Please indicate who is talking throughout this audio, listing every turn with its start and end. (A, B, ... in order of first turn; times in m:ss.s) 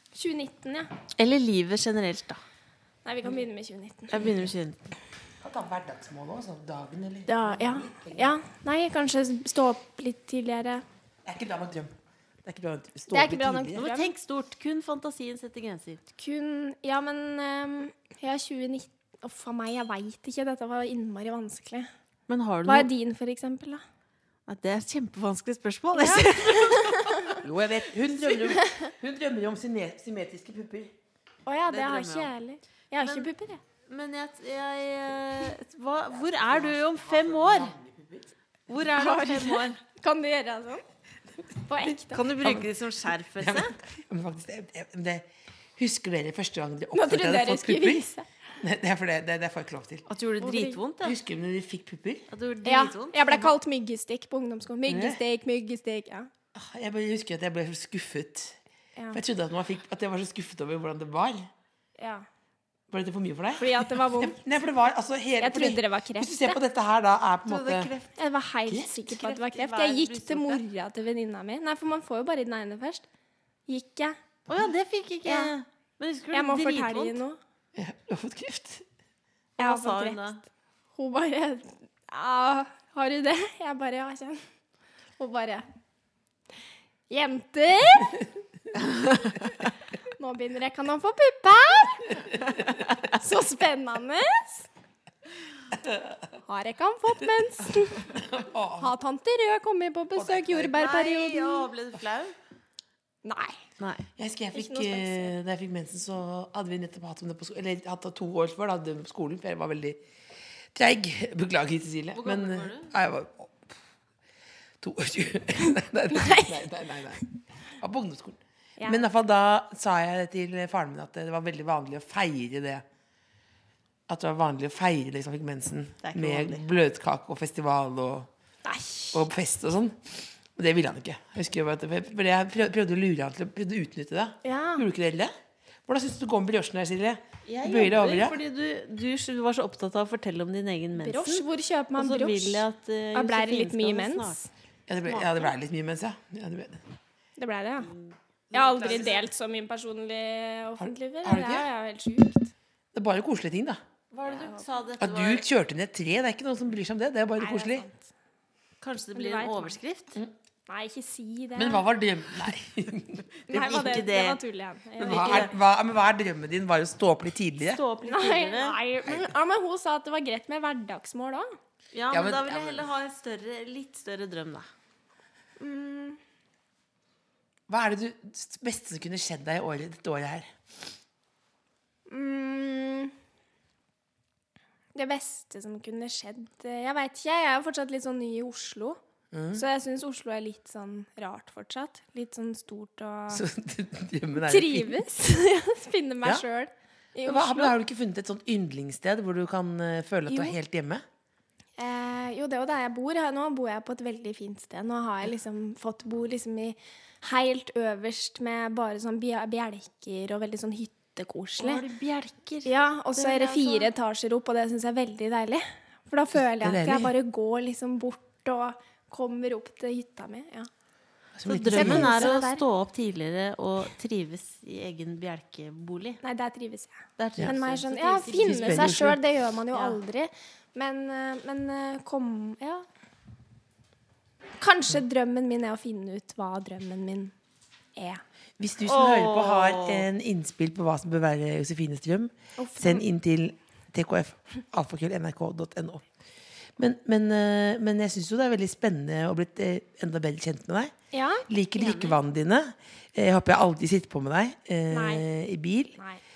0:00.2-0:00.9 A
0:01.2-0:02.4 B
0:03.0-0:04.4 A
0:04.1-0:05.0 B
0:05.4-0:08.3 C
0:07.3-0:10.8 A
0:11.2-0:11.9 C
0:12.4-0:13.8 C
0:13.1-0:14.1 A
0:13.8-0:16.0 B
0:16.2-0:21.9 A
0:22.3-0:22.9 B
0:22.7-0:23.8 A
0:24.5-0:27.4 B
0:26.0-0:27.4 A
0:27.4-0:30.9 C
0:28.4-0:28.9 A
0:31.5-0:33.6 A
0:31.7-0:32.3 B
0:33.0-0:33.3 B
0:33.9-0:37.7 B
0:36.1-0:38.3 C
0:38.7-0:39.8 B
0:38.8-0:40.8 A
0:41.7-0:42.5 A
0:41.8-0:43.7 B
0:43.4-0:48.0 C
0:46.9-0:48.3 A
0:48.6-0:50.1 C
0:50.1-0:51.2 B
0:50.4-0:50.8 A
0:51.0-0:52.3 C
0:52.3-0:53.5 B
0:52.6-0:56.3 A
0:54.9-0:55.2 C
0:56.5-0:58.6 C
0:59.0-0:59.2 A
0:59.1-1:01.5 C
1:02.0-1:02.2 A
1:02.9-1:07.9 C
1:03.6-1:04.4 A
1:05.4-1:06.6 A
1:07.4-1:08.1 B
1:08.2-1:13.0 A
1:08.7-1:08.9 C
1:09.1-1:10.6 B
1:13.7-1:14.2 A
1:14.5-1:17.2 B
1:15.3-1:15.5 A
1:16.3-1:17.4 A
1:17.8-1:18.8 C
1:19.6-1:20.4 B
1:19.6-1:20.3 A
1:20.9-1:24.4 A
1:25.2-1:25.6 A
1:27.1-1:28.2 A
1:30.2-1:32.4 A
1:33.0-1:34.7 A
1:35.9-1:36.2 C
1:36.4-1:38.2 A
1:38.1-1:38.9 C
1:38.8-1:41.7 A
1:40.2-1:40.8 C
1:40.6-1:42.3 B
1:43.2-1:43.6 A
1:43.8-1:44.1 B
1:44.2-1:50.0 C
1:44.5-1:45.3 A
1:50.7-1:53.8 C
1:52.2-1:52.9 B
1:54.8-1:57.3 C
1:56.2-1:56.5 A
1:57.8-2:02.8 C
1:58.8-1:59.0 A
2:04.1-2:08.3 C
2:06.0-2:06.6 B
2:08.6-2:09.2 A
2:09.1-2:15.3 C
2:14.4-2:14.9 A
2:15.9-2:18.4 C
2:17.5-2:21.4 B
2:21.0-2:24.5 A
2:22.0-2:24.4 B
2:24.9-2:26.8 C
2:25.1-2:25.5 B
2:27.4-2:27.9 A
2:28.5-2:29.2 C
2:28.5-2:32.5 A
2:28.8-2:29.1 B
2:30.8-2:31.7 C
2:32.9-2:33.8 C
2:34.1-2:35.4 B
2:35.0-2:37.9 C
2:37.4-2:38.0 A
2:38.8-2:40.2 B
2:39.2-2:39.8 A
2:40.7-2:41.9 A
2:41.6-2:43.2 C
2:43.5-2:44.4 B
2:43.5-2:45.5 A
2:45.0-2:47.8 C
2:45.0-2:45.5 B
2:47.7-2:48.8 B
2:48.0-2:51.5 A
2:49.0-2:49.3 C
2:51.9-2:54.7 B
2:52.1-2:52.9 C
2:55.6-2:56.2 A
2:57.7-3:00.5 C
3:02.1-3:03.1 A
3:05.0-3:09.0 A
3:09.3-3:09.6 C
3:09.5-3:13.4 A
3:13.3-3:15.0 C
3:14.4-3:17.8 A
3:17.2-3:21.0 C
3:20.3-3:20.6 A
3:21.8-3:31.8 A
3:31.6-3:33.9 B
3:32.6-3:40.7 A
3:36.6-3:37.1 C
3:41.4-3:42.3 C
3:41.4-3:46.2 B
3:41.7-3:42.6 A
3:46.2-3:52.9 A
3:47.2-3:49.0 B
3:48.4-3:49.2 C
3:49.7-3:50.0 B
3:54.6-3:57.3 A
3:58.0-3:58.2 A
3:58.6-4:06.0 C
3:58.9-4:00.1 B
4:02.6-4:03.0 A
4:06.8-4:10.9 C
4:11.1-4:11.4 A
4:11.5-4:16.0 C
4:11.8-4:12.2 B
4:14.9-4:15.3 A